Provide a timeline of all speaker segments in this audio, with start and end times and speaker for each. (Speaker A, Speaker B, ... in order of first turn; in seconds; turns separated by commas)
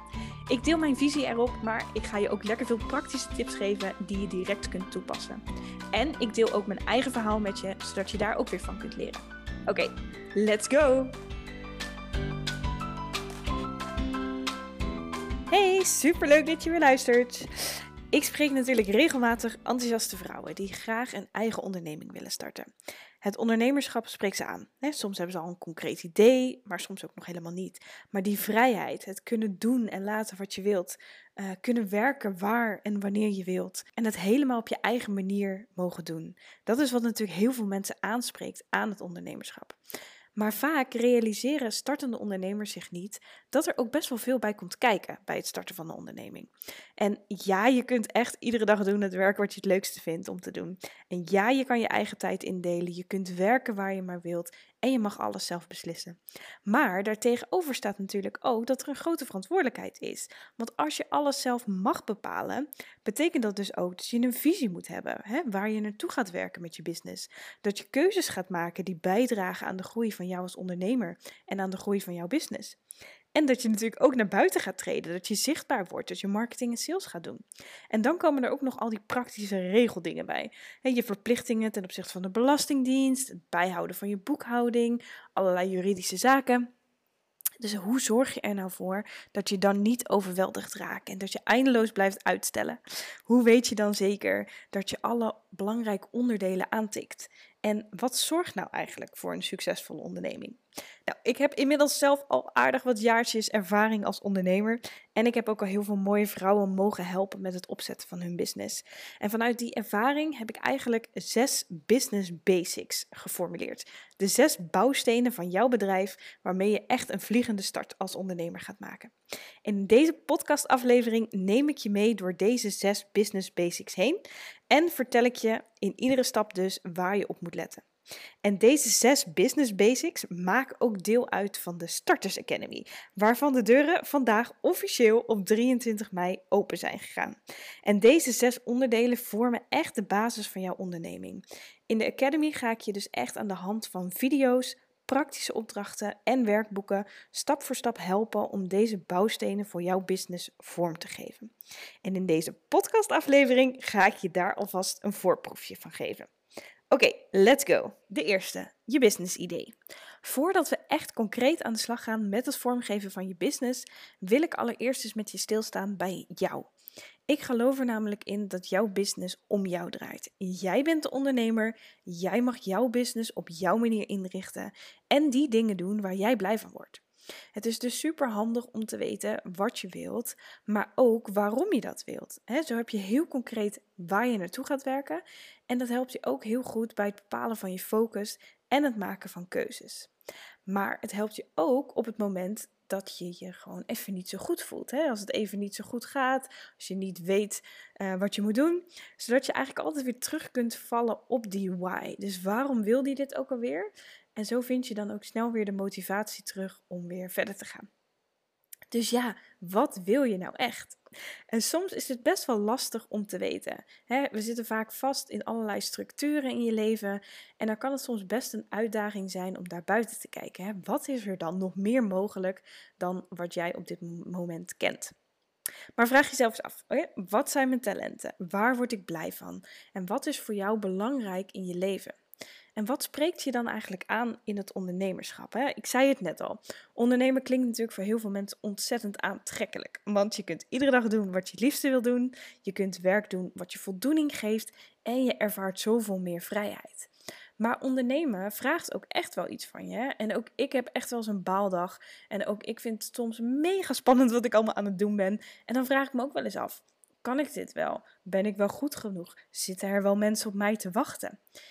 Speaker A: 0.5-5.4, Speaker A: 5.9-11.2, Speaker A: 15.5-22.7, Speaker A: 23.2-39.8, Speaker A: 40.4-72.8, Speaker A: 73.3-86.7, Speaker A: 87.6-119.1, Speaker A: 119.7-127.8, Speaker A: 128.4-151.5, Speaker A: 152.0-156.3, Speaker A: 156.9-166.7, Speaker A: 167.3-177.0, Speaker A: 177.6-190.1, Speaker A: 190.7-207.9, Speaker A: 208.9-211.0, Speaker A: 211.5-225.2, Speaker A: 226.0-232.2, Speaker A: 232.8-261.4